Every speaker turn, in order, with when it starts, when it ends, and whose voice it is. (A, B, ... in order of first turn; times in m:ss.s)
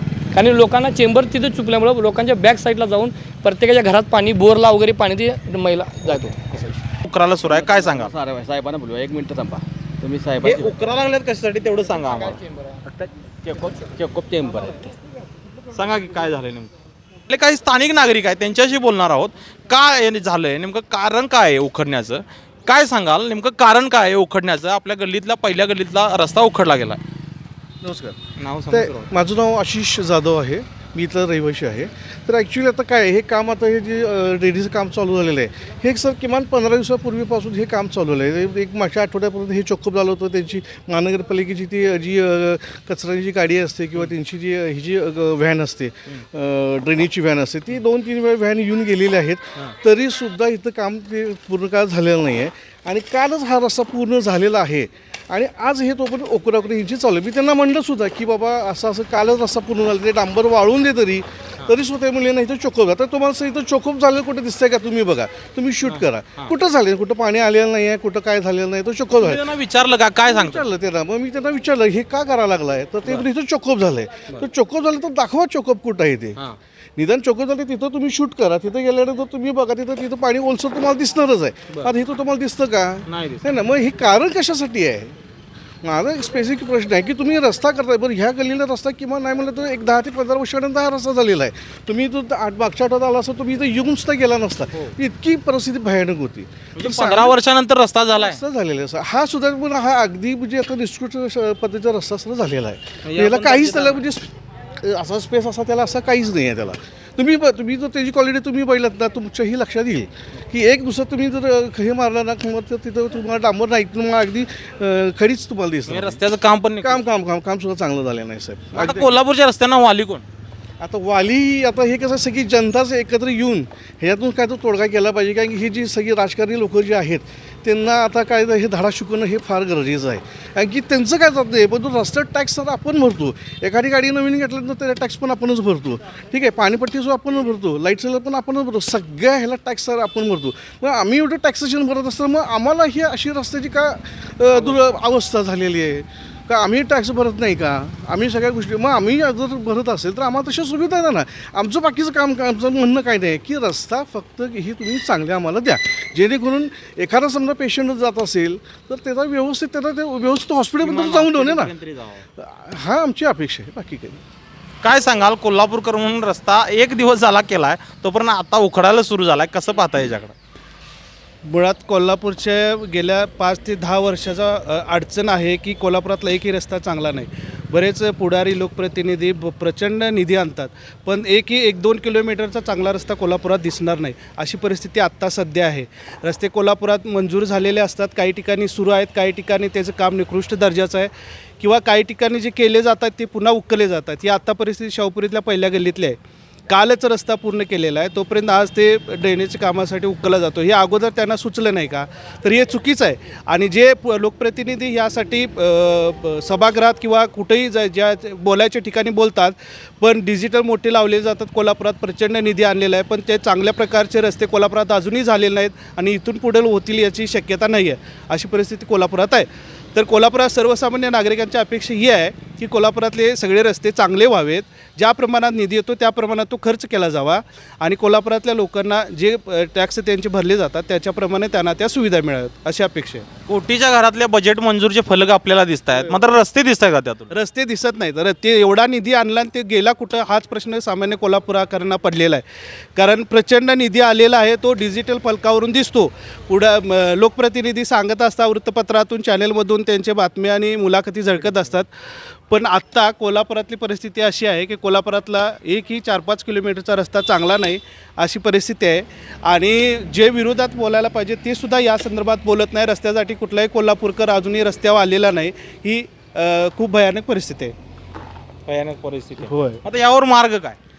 0:00.3-0:06.8 A
0:07.0-0:08.2 B
0:07.5-0:08.3 C
0:09.6-0:10.7 C
0:10.4-0:12.4 B
0:13.4-0:14.8 C
0:15.7-0:16.7 B
0:17.3-0:27.0 B
0:27.8-0:28.2 D
0:28.4-0:29.1 B
0:28.7-1:09.4 D
1:05.8-1:06.5 B
1:09.2-1:10.6 B
1:10.2-1:16.4 D
1:17.0-1:25.2 D
1:23.0-1:23.6 B
1:25.8-1:37.4 D
1:36.8-1:38.4 B
1:38.1-1:56.2 D
1:43.0-1:44.0 B
1:55.9-1:57.0 B
1:56.8-1:59.1 D
1:58.7-2:00.2 B
2:00.8-2:41.7 D
2:24.5-2:24.8 B
2:40.8-2:42.2 B
2:42.4-2:44.2 D
2:44.8-2:50.3 B
2:51.4-3:16.2 E
3:16.7-3:53.2 E
3:53.5-3:57.3 B
3:55.9-3:56.2 E
3:57.3-4:02.4 E
4:03.0-4:11.9 E
4:12.5-4:27.7 E
4:28.7-4:30.8 B
4:29.5-4:29.8 E